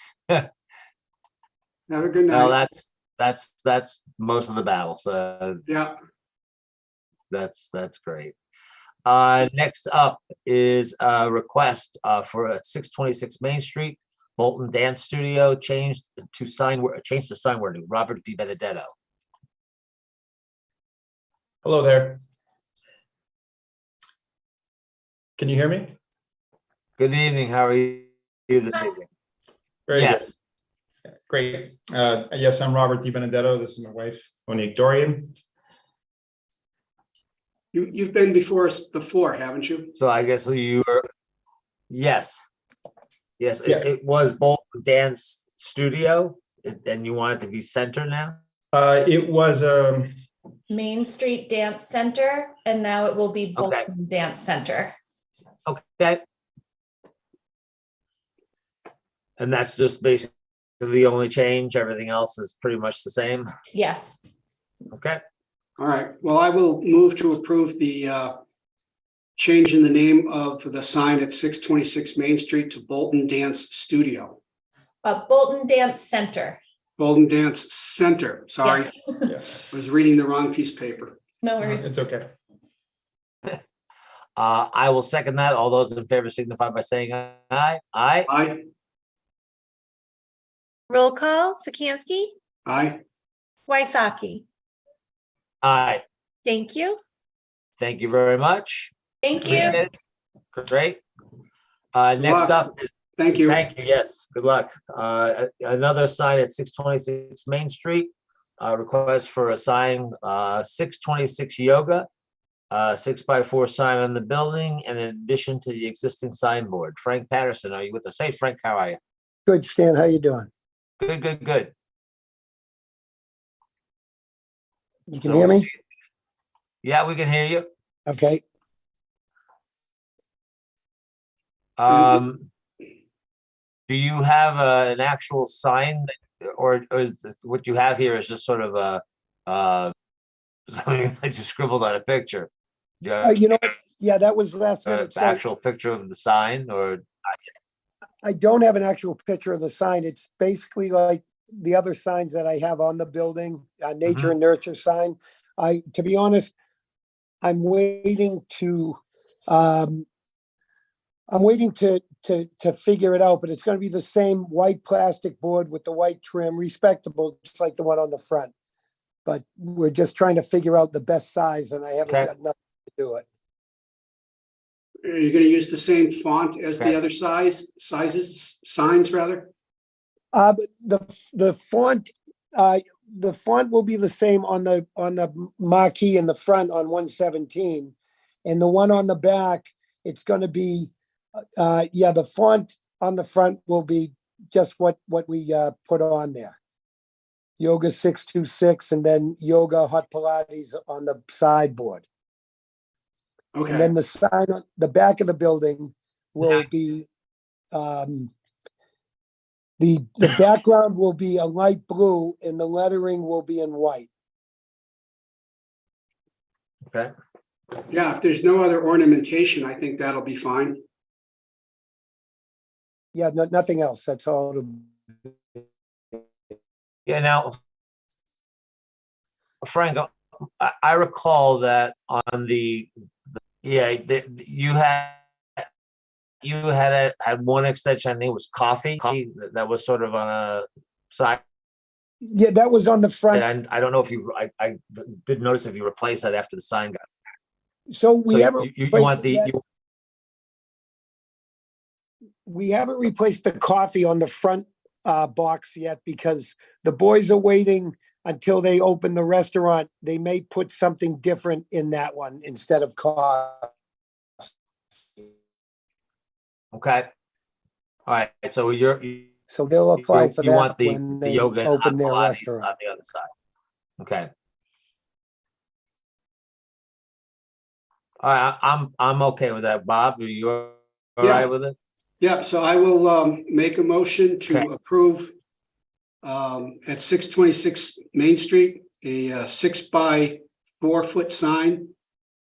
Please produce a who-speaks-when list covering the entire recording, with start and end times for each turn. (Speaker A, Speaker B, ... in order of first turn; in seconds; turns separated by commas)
Speaker A: 1.9-2.6, Speaker B: 2.3-5.6, Speaker A: 5.7-5.9, Speaker B: 7.3-8.3, Speaker B: 9.1-18.9, Speaker C: 21.6-22.2, Speaker C: 25.4-26.0, Speaker B: 27.0-29.1, Speaker C: 29.9-30.3, Speaker B: 29.9-30.3, Speaker C: 31.3-35.3, Speaker A: 37.7-39.9, Speaker B: 40.0-41.0, Speaker B: 41.9-42.4, Speaker B: 43.4-48.4, Speaker C: 48.7-50.1, Speaker D: 50.7-55.0, Speaker B: 53.6-53.9, Speaker B: 55.7-56.2, Speaker B: 59.4-63.5, Speaker D: 63.7-64.2, Speaker B: 64.9-65.2, Speaker A: 65.8-68.3, Speaker A: 69.4-74.4, Speaker D: 75.0-76.6, Speaker A: 77.0-78.9, Speaker A: 79.7-81.2, Speaker D: 81.4-81.8, Speaker C: 81.6-82.3, Speaker B: 84.4-88.3, Speaker A: 88.3-88.6, Speaker E: 90.9-92.3, Speaker A: 92.7-93.0, Speaker E: 93.7-94.4, Speaker B: 95.6-96.0, Speaker E: 96.5-97.0, Speaker B: 97.8-98.9, Speaker D: 99.2-99.8, Speaker B: 99.4-99.9, Speaker B: 100.5-101.0, Speaker B: 101.9-102.9, Speaker A: 102.2-103.7, Speaker B: 103.5-112.1, Speaker B: 112.7-119.0, Speaker F: 119.5-120.5, Speaker B: 121.0-121.7, Speaker F: 125.1-125.7, Speaker B: 125.2-125.8, Speaker B: 126.8-127.7, Speaker F: 128.1-128.4, Speaker B: 131.8-132.5, Speaker B: 133.9-139.9, Speaker B: 140.7-142.5, Speaker B: 143.0-143.4, Speaker F: 143.2-145.4, Speaker B: 144.9-147.0, Speaker F: 148.2-156.5, Speaker B: 154.1-154.3, Speaker F: 157.4-160.1, Speaker F: 161.3-168.5, Speaker F: 169.3-173.2, Speaker A: 175.0-179.5, Speaker F: 180.3-187.9, Speaker F: 188.4-190.9, Speaker F: 191.6-196.6, Speaker F: 197.6-202.0, Speaker A: 203.5-203.9, Speaker F: 203.7-207.1, Speaker F: 207.7-208.3, Speaker F: 209.8-214.1, Speaker A: 217.9-220.8, Speaker F: 223.1-225.3, Speaker B: 227.1-227.6, Speaker B: 229.6-230.1, Speaker B: 230.6-232.9, Speaker B: 233.6-235.7, Speaker B: 236.4-241.4, Speaker F: 242.2-243.4, Speaker B: 243.3-247.0, Speaker F: 247.9-249.5, Speaker B: 248.3-249.6, Speaker F: 252.5-263.7, Speaker B: 266.7-267.1, Speaker B: 268.1-269.3, Speaker F: 269.5-272.7, Speaker B: 270.0-273.3, Speaker B: 274.0-274.3, Speaker B: 278.2-281.8, Speaker A: 281.2-281.5, Speaker A: 282.2-285.3, Speaker A: 286.2-291.9